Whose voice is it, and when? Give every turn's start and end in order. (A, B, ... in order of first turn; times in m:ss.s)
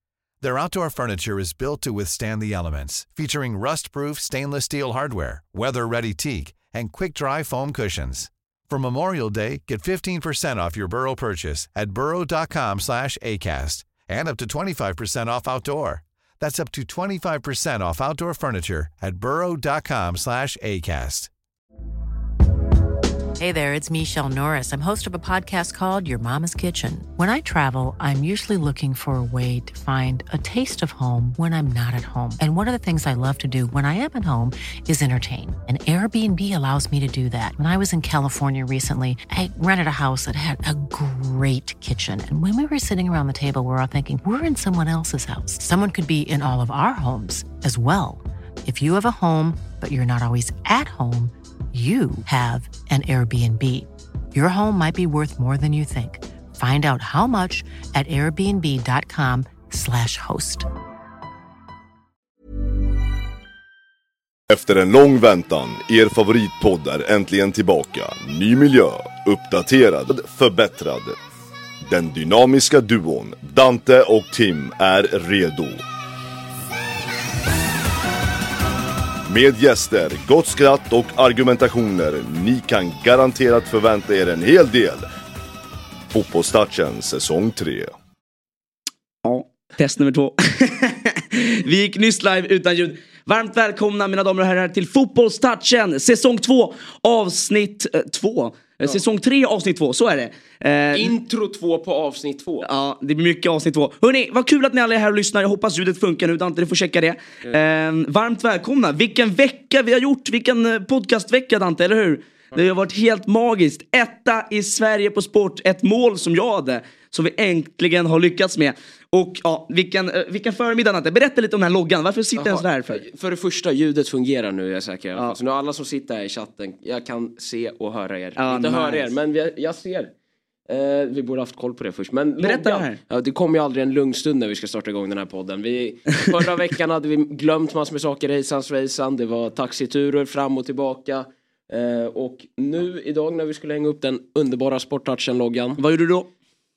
0:00.4-0:21.3 A
0:23.4-1:00.7 B
1:04.5-1:11.2 C
1:11.9-1:15.8 C
1:19.3-1:25.1 C
1:26.1-1:27.9 C
1:29.2-1:41.1 D
1:40.9-1:42.7 E
1:42.6-2:03.0 D
2:02.4-2:10.1 E
2:08.4-2:09.1 D
2:10.7-2:25.8 E
2:12.4-2:13.0 D
2:25.8-2:26.3 D